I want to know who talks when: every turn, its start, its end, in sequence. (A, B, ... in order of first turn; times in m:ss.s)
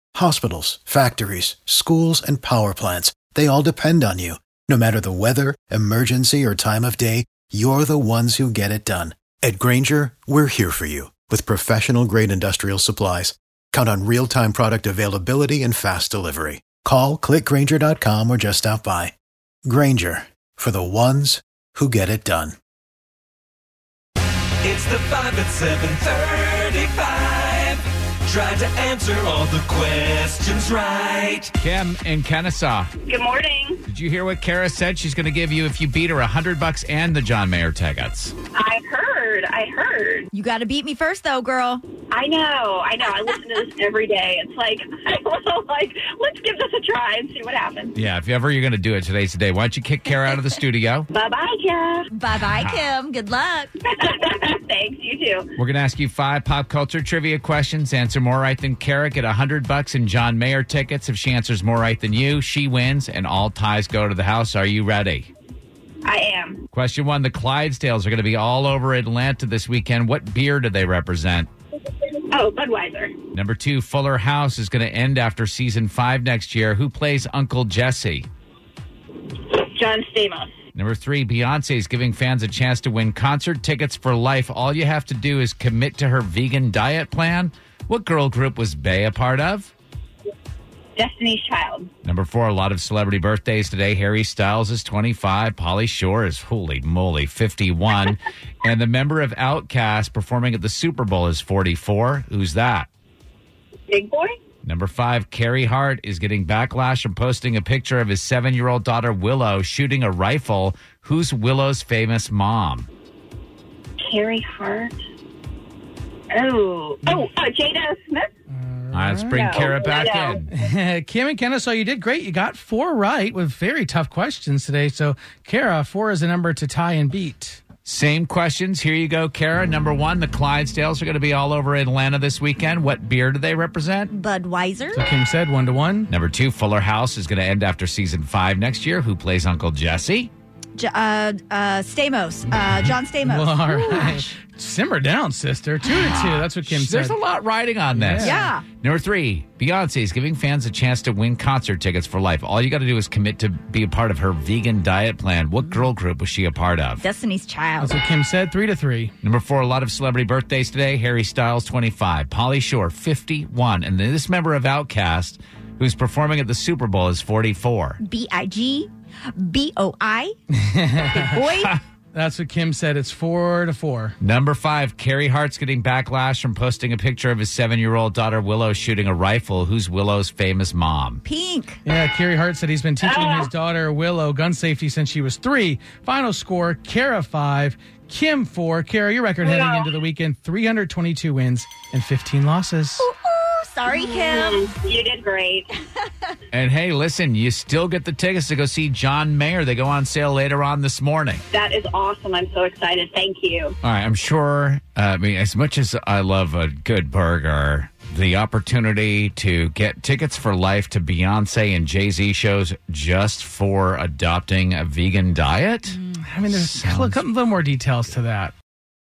0:00.1-0:19.1 A
0:19.6-0:22.6 A
0:24.6-0:31.5 B
0:31.6-0:32.9 C
0:33.0-0:33.8 D
0:33.9-0:38.3 C
0:38.6-0:40.5 D
0:40.4-0:41.8 E
0:42.0-0:47.9 D
0:47.9-0:51.1 C
0:51.1-0:53.3 D
0:52.4-0:52.9 C
0:52.5-0:53.7 E
0:53.8-0:55.4 D
0:55.6-1:05.3 C
1:06.0-1:06.6 D
1:06.7-1:11.5 C
1:12.3-1:13.1 D
1:13.3-1:18.3 C
1:19.5-1:20.5 D
1:20.7-1:29.7 C
1:31.0-1:31.8 D
1:32.0-1:42.9 C
1:43.9-1:44.3 D
1:44.6-1:52.9 C
1:54.1-1:54.9 D
1:56.3-1:58.3 D
1:58.5-1:59.4 F
1:58.9-2:00.4 C
1:59.3-2:00.4 D
2:00.5-2:07.6 F
2:07.8-2:14.1 C
2:14.2-2:15.0 E
2:14.9-2:16.1 F
2:16.1-2:20.3 C
2:20.8-2:23.4 E
2:23.2-2:27.2 F
2:23.4-2:24.2 D
2:25.8-2:37.0 C
2:27.9-2:28.5 F
2:28.2-2:28.6 E
2:37.0-2:37.8 E
2:37.8-2:39.1 F
2:39.2-2:48.0 C
2:48.1-2:48.9 E
2:49.5-2:50.2 E
2:50.5-2:51.5 F
2:51.3-2:51.7 E
2:51.4-2:51.8 C
2:52.1-2:54.1 F
2:54.2-3:01.2 C
3:01.3-3:01.7 E
3:01.8-3:13.1 F
3:03.0-3:03.4 D
3:09.4-3:09.8 D
3:13.6-3:14.6 E
3:13.8-3:15.7 D
3:16.5-3:21.4 C
3:21.5-3:23.7 D
3:23.8-3:37.2 C
3:36.0-3:38.5 F